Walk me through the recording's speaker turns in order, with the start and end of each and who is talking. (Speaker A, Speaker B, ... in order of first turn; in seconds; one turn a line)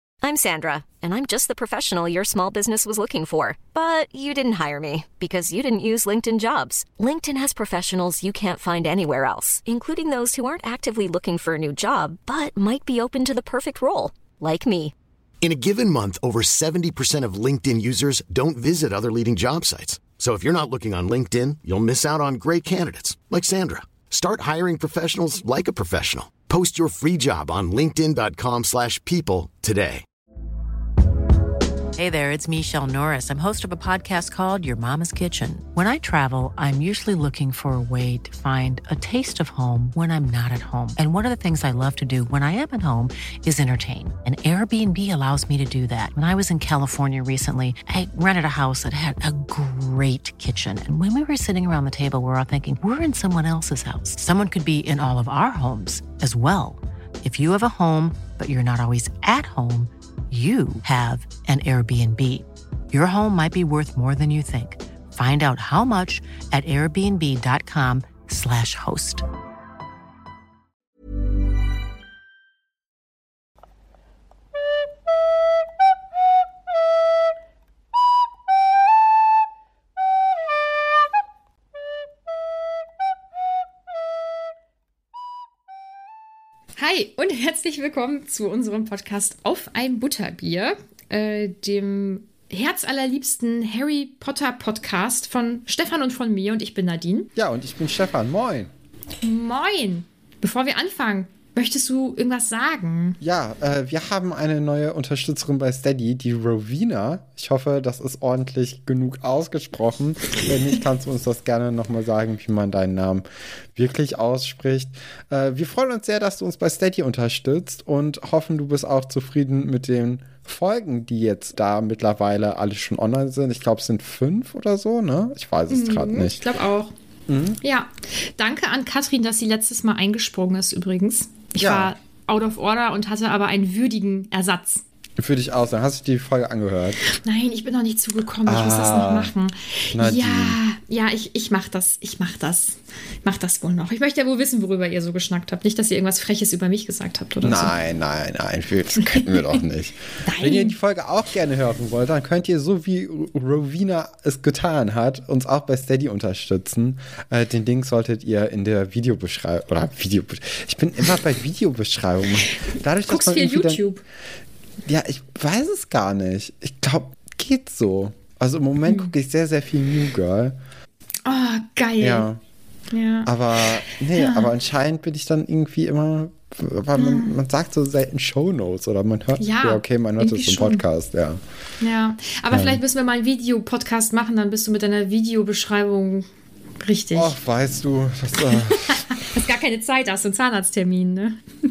Speaker A: 0.2-14.9
Speaker B: 15.4-30.0
Speaker C: 31.9-69.2
Speaker D: 86.8-97.3
Speaker E: 97.3-98.7
Speaker D: 99.2-103.2
Speaker E: 103.2-126.4
Speaker D: 125.7-126.9
Speaker E: 127.3-127.6
Speaker D: 127.6-134.8
Speaker E: 131.6-131.9
Speaker E: 135.2-137.0
Speaker D: 137.1-147.7
Speaker E: 138.4-139.3
Speaker E: 139.9-140.6
Speaker E: 147.4-163.8
Speaker D: 150.2-150.7
Speaker D: 163.1-164.0
Speaker E: 164.8-170.6
Speaker D: 168.9-169.1
Speaker D: 171.2-172.3
Speaker E: 172.0-172.4
Speaker D: 172.9-173.3
Speaker E: 173.2-181.4
Speaker D: 174.2-174.5
Speaker D: 176.9-177.3
Speaker D: 179.4-180.8
Speaker D: 181.8-186.3
Speaker E: 182.5-182.8
Speaker D: 186.8-187.3
Speaker E: 187.1-189.0
Speaker D: 188.5-191.4